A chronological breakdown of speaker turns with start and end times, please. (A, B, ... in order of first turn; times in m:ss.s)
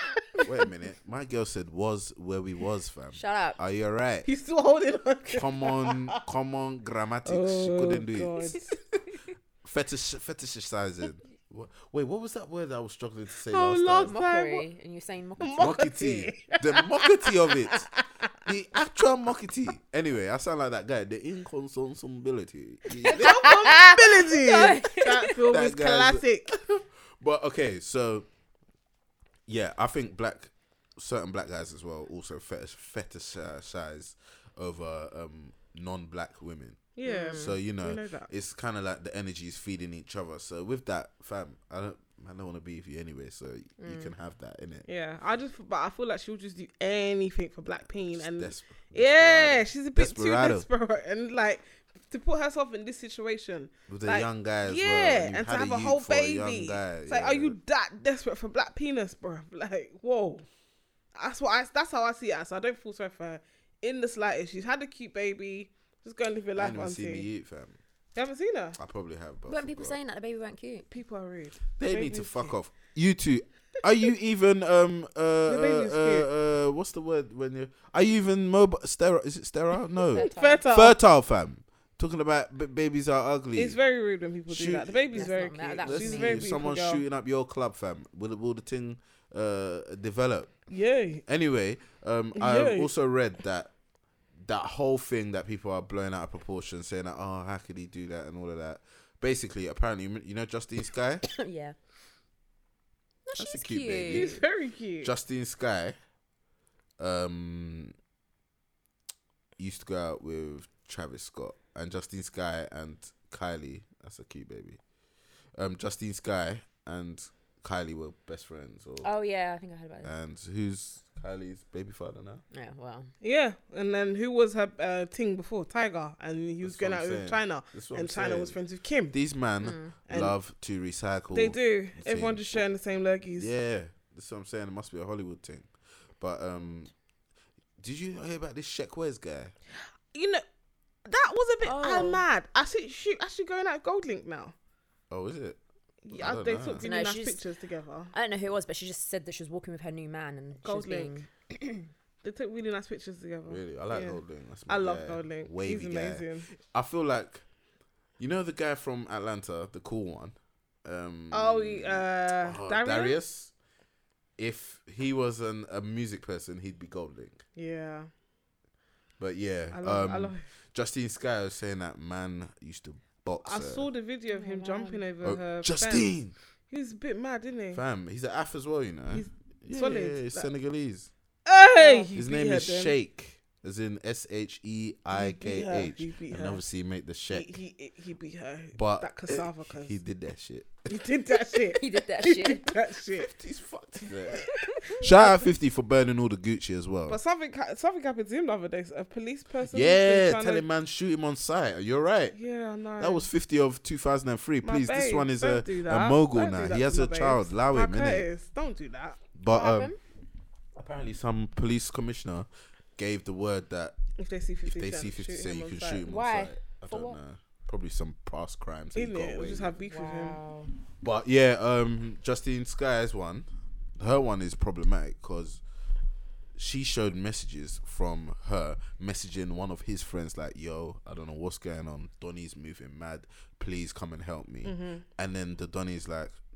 0:00.4-0:04.3 A
0:03.1-0:03.6 B
0:04.2-0:06.2 C
0:05.3-0:08.6 A
0:07.2-0:08.8 C
0:09.6-0:14.1 A
0:13.4-0:14.6 C
0:14.0-0:15.8 B
0:15.4-0:18.3 C
0:15.6-0:17.9 A
0:18.4-0:23.6 A
0:23.0-0:25.4 B
0:23.0-0:26.5 C
0:25.5-0:28.3 A
0:29.5-0:44.8 A
0:36.9-0:38.3 C
0:37.0-0:37.6 B
0:43.8-0:44.1 B
0:44.8-1:00.4 C
0:48.1-0:50.6 A
0:53.9-0:57.6 A
1:01.1-1:07.3 C
1:06.6-1:07.8 A
1:08.1-1:08.8 C
1:08.8-1:10.0 A
1:09.5-1:10.9 B
1:10.9-1:12.5 C
1:11.8-1:23.8 A
1:15.5-1:16.3 C
1:20.1-1:20.6 B
1:20.2-1:21.0 C
1:23.6-1:27.0 C
1:24.5-1:25.0 A
1:25.1-1:26.5 B
1:25.8-1:30.6 A
1:30.7-1:31.2 C
1:31.2-1:33.7 A
1:32.3-1:32.9 C
1:34.4-1:41.2 A
1:41.3-1:41.8 B
1:43.2-1:44.4 B
1:43.4-1:44.4 A
1:44.1-1:45.1 C
1:45.0-1:46.0 A
1:47.0-1:47.9 A
1:49.6-1:54.8 A
1:55.6-1:59.1 A
1:59.0-2:00.1 B
2:00.0-2:02.4 A
2:02.5-2:03.1 B
2:03.2-2:09.2 C
2:06.6-2:08.6 A
2:09.1-2:12.6 A
2:09.6-2:09.9 B
2:10.1-2:10.3 C
2:11.3-2:13.5 C
2:13.4-2:16.9 A
2:17.8-2:19.5 A
2:20.1-2:20.4 C
2:21.0-2:24.5 C
2:21.6-2:22.2 B
2:25.1-2:25.6 A
2:26.0-2:28.1 C
2:26.1-2:26.8 A
2:26.8-2:27.4 B
2:28.1-2:31.9 B
2:30.6-2:31.2 C
2:32.2-2:36.5 C
2:33.5-2:37.4 A
2:38.2-2:43.5 A
2:41.3-2:43.2 C
2:44.4-2:47.4 A
2:47.6-2:48.1 C
2:49.2-2:53.9 A
2:49.7-2:50.5 C
2:53.4-2:56.1 C
2:54.3-2:55.0 B
2:55.2-2:56.3 A
2:56.7-2:57.8 C
2:57.7-3:01.1 A
2:59.1-3:00.5 C
3:01.4-3:02.9 C
3:01.8-3:02.1 B
3:02.1-3:07.5 A
3:05.1-3:06.6 C
3:07.3-3:10.0 C
3:08.7-3:10.9 A
3:10.9-3:13.3 C
3:11.7-3:12.7 B
3:13.2-3:17.2 A
3:14.4-3:15.4 C
3:17.1-3:20.6 C
3:19.7-3:22.4 A
3:22.3-3:23.3 C
3:23.0-3:28.2 A
3:24.6-3:29.2 C
3:29.3-3:29.9 A
3:29.5-3:30.0 B
3:30.8-3:34.0 A
3:34.2-3:36.0 C
3:34.6-3:39.7 A
3:36.0-3:37.2 B
3:38.9-3:40.4 C
3:39.9-3:40.7 B
3:41.0-3:45.6 A
3:46.5-3:56.4 A
3:54.6-3:55.0 C